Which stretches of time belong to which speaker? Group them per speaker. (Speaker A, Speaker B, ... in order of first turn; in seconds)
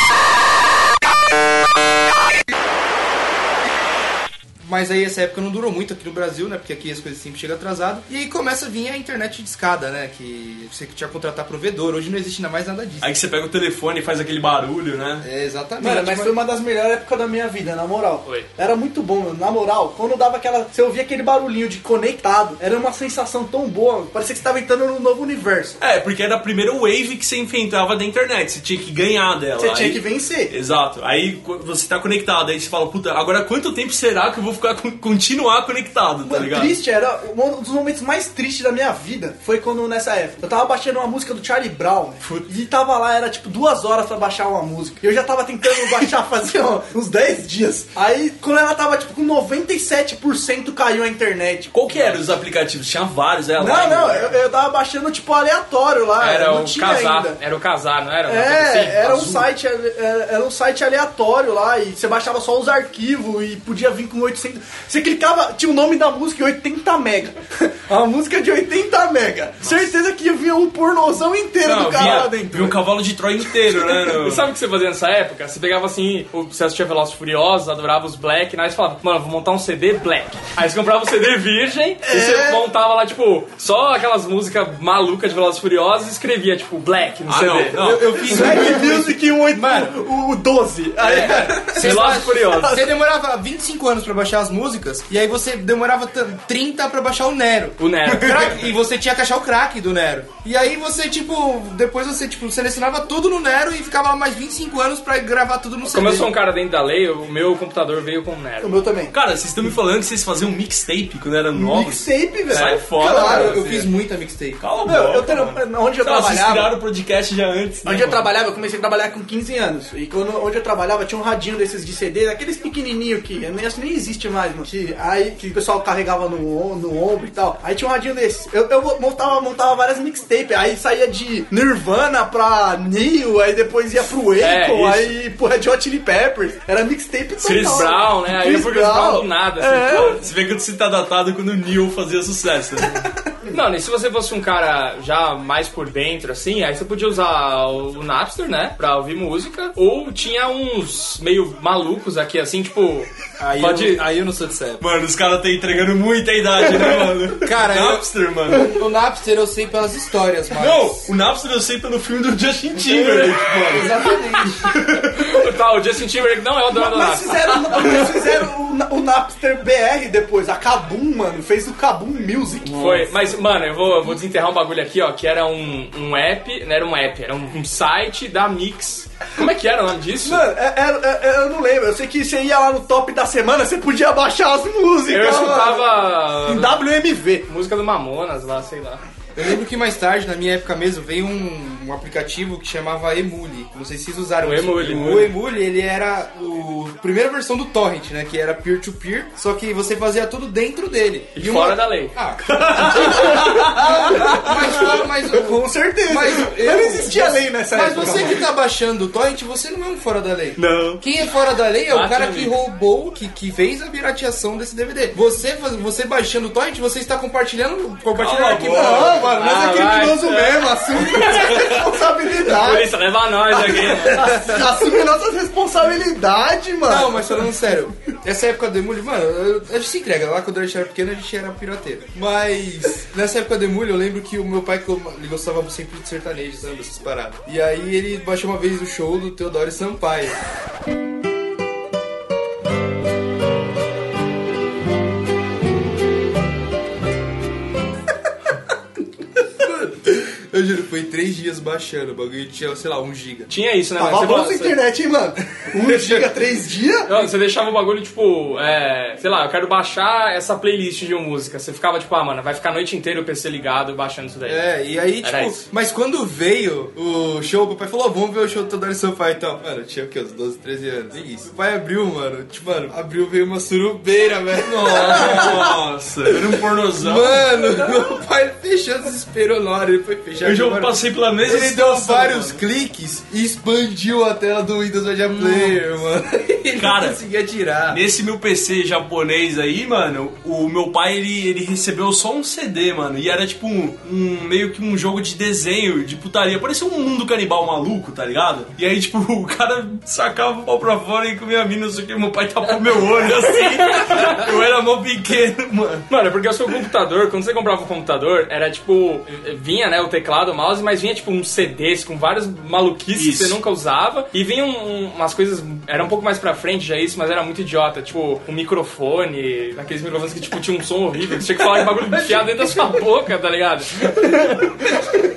Speaker A: 4.6-13.1, 15.2-16.3, 87.8-89.9, 91.1-106.3, 113.0-114.6, 153.4-154.8, 157.4-161.1, 162.9-164.7, 189.4-219.3, 224.4-224.7, 226.9-240.4, 249.6-253.5, 255.8-256.2, 264.5-275.8, 277.0-288.0
Speaker B: 13.0-15.3, 25.8-36.8, 42.2-42.5, 51.7-54.3, 71.6-74.5, 87.3-88.3, 109.1-113.9, 114.6-118.3, 139.9-143.0, 154.8-158.7, 160.5-163.9, 164.4-165.2, 172.7-173.1, 202.5-203.0, 218.2-219.2, 274.6-277.6, 280.4-282.6, 285.4-285.7, 286.8-287.2, 287.9-306.1, 313.1-313.6
Speaker C: 15.8-25.8, 29.6-30.5, 36.2-51.7, 53.6-57.4, 58.3-72.8, 82.0-82.7, 88.2-92.0, 108.6-109.1, 111.5-113.6, 114.8-116.7, 117.8-140.2, 166.7-172.7, 180.2-187.4, 202.9-208.4, 218.7-227.5, 254.0-257.3, 321.8-322.9, 324.2-325.3
Speaker D: 51.9-52.2, 56.2-59.5, 72.0-72.3, 74.2-87.8, 91.0-92.8, 97.8-98.6, 105.8-108.8, 112.5-112.8, 134.4-135.2, 137.4-140.2, 143.5-154.0, 165.2-168.0, 172.8-180.4, 185.1-186.8, 187.5-189.0, 194.4-195.3, 201.3-202.1, 210.6-211.0, 211.9-212.6, 219.4-221.9, 222.4-224.3, 253.5-254.8, 257.1-264.6, 265.2-265.6, 303.5-304.4, 306.1-324.6